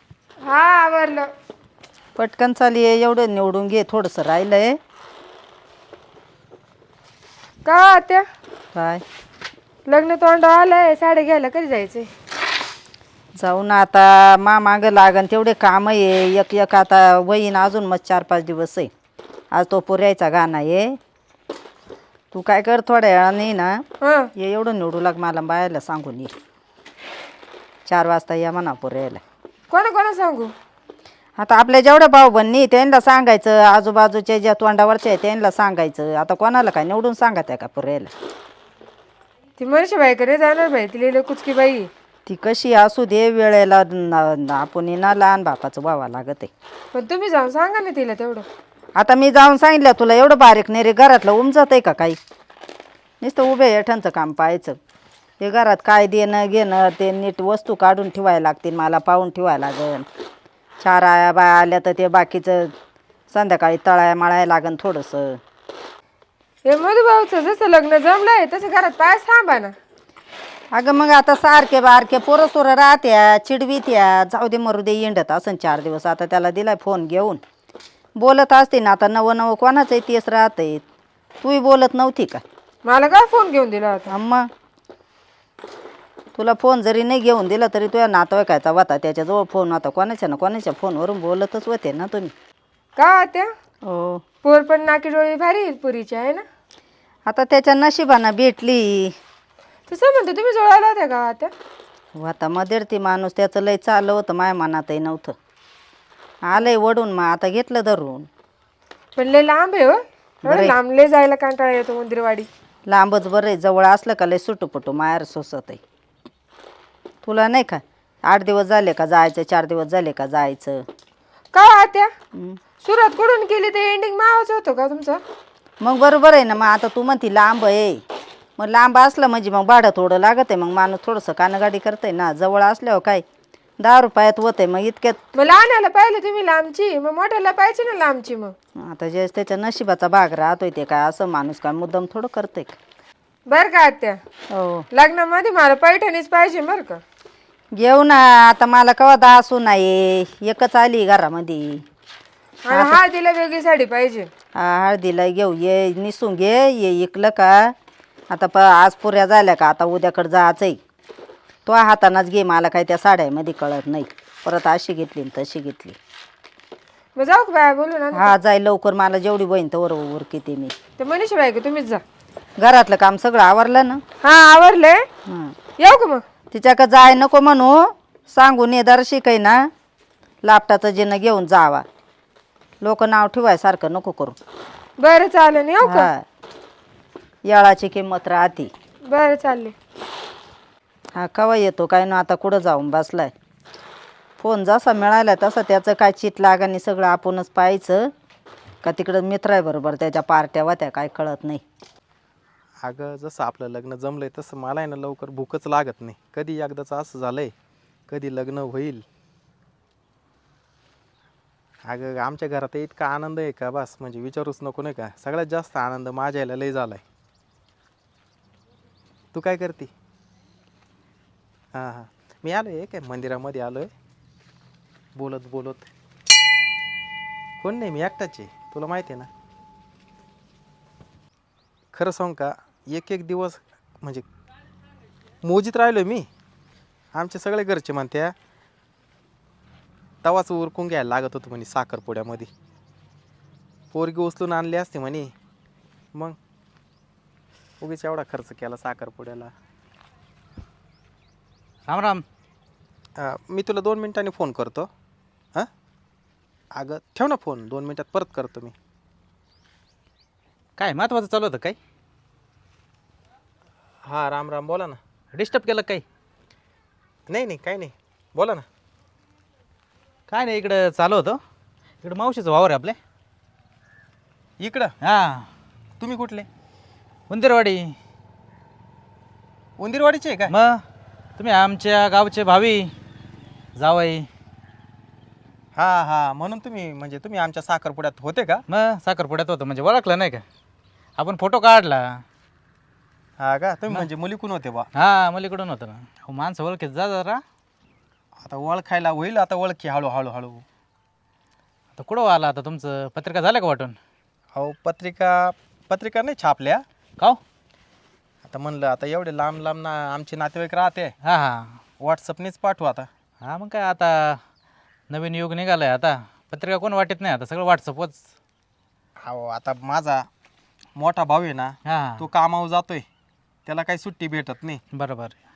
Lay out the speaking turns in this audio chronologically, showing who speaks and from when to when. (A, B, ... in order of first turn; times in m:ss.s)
0:00.4-0:01.3 A
0:02.2-0:04.8 B
0:07.6-0:08.3 A
0:08.8-0:09.0 B
0:09.9-0:12.1 A
0:13.4-0:18.9 B
0:19.5-0:21.0 B
0:22.3-0:23.8 B
0:24.0-0:24.3 A
0:24.4-0:26.4 B
0:27.9-0:29.2 B
0:29.7-0:30.5 A
0:31.4-0:38.1 B
0:39.6-0:41.9 A
0:42.3-0:46.5 B
0:46.9-0:48.5 A
0:49.0-0:52.2 B
0:53.2-0:54.8 B
0:55.4-1:00.1 B
1:00.8-1:02.7 B
1:03.3-1:05.4 B
1:06.6-1:09.8 A
1:10.7-1:17.4 B
1:18.2-1:20.8 B
1:21.4-1:22.4 B
1:22.9-1:24.1 A
1:24.1-1:24.5 B
1:26.4-1:32.3 B
1:33.0-1:33.5 A
1:33.8-1:34.3 B
1:34.4-1:36.4 A
1:37.3-1:39.2 B
1:39.9-1:41.5 A
1:42.2-1:45.4 B
1:46.4-1:48.3 B
1:49.2-1:52.5 A
1:50.5-1:50.8 B
1:52.9-1:55.8 B
1:57.2-2:00.8 B
2:01.5-2:02.1 A
2:02.8-2:05.2 A
2:05.8-2:08.0 B
2:08.6-2:13.2 B
2:13.8-2:15.2 B
2:15.4-2:18.6 A
2:18.8-2:22.8 B
2:23.5-2:24.2 A
2:24.5-2:24.8 B
2:24.9-2:27.0 A
2:27.8-2:31.8 B
2:32.7-2:34.3 A
2:32.7-2:33.0 B
2:34.6-2:37.7 B
2:38.3-2:40.8 B
2:41.7-2:46.0 B
2:47.2-2:48.4 A
2:48.1-2:50.8 B
2:51.0-2:52.0 A
2:52.6-2:54.0 B
2:54.2-2:55.0 A
2:55.3-2:55.6 B
2:55.8-2:56.2 A
2:56.5-2:59.7 B
3:00.4-3:01.8 B
3:02.8-3:04.4 B
3:05.0-3:06.1 A
3:05.8-3:06.2 B
3:07.5-3:08.7 B
3:09.1-3:09.7 A
3:11.2-3:13.3 B
3:14.4-3:18.1 B
3:18.8-3:21.6 B
3:22.8-3:27.5 C
3:28.1-3:29.1 C
3:31.8-3:37.0 C
3:39.3-3:39.9 C
3:41.7-3:43.9 C
3:45.2-3:45.9 C
3:47.6-3:49.3 C
3:51.9-3:54.3 C
3:55.4-3:56.3 C
3:57.1-3:58.4 C
4:00.2-4:02.5 C
4:03.9-4:05.3 C
4:07.8-4:09.5 C
4:11.9-4:12.2 D
4:13.2-4:14.9 C
4:16.7-4:18.8 C
4:20.8-4:21.8 D
4:24.1-4:25.0 C
4:25.3-4:26.0 D
4:27.3-4:28.7 C
4:30.3-4:31.4 D
4:32.0-4:33.0 D
4:34.6-4:34.9 C
4:35.0-4:35.5 D
4:36.0-4:36.5 C
4:37.3-4:38.0 D
4:39.8-4:40.5 C
4:40.5-4:40.8 D
4:41.4-4:42.9 D
4:43.8-4:44.3 D
4:45.8-4:48.6 C
4:48.7-4:50.4 D
4:51.2-4:52.2 D
4:53.4-4:54.9 C
4:55.0-4:57.4 D
4:58.4-5:00.6 C
5:02.0-5:04.0 D
5:04.6-5:06.8 C
5:08.4-5:11.2 C
5:11.2-5:11.8 D
5:12.0-5:13.1 C
5:13.4-5:14.4 D
5:15.1-5:18.2 D
5:19.2-5:20.3 C
5:21.0-5:23.1 C
5:21.9-5:22.2 D
5:23.7-5:24.8 C
5:24.9-5:25.4 D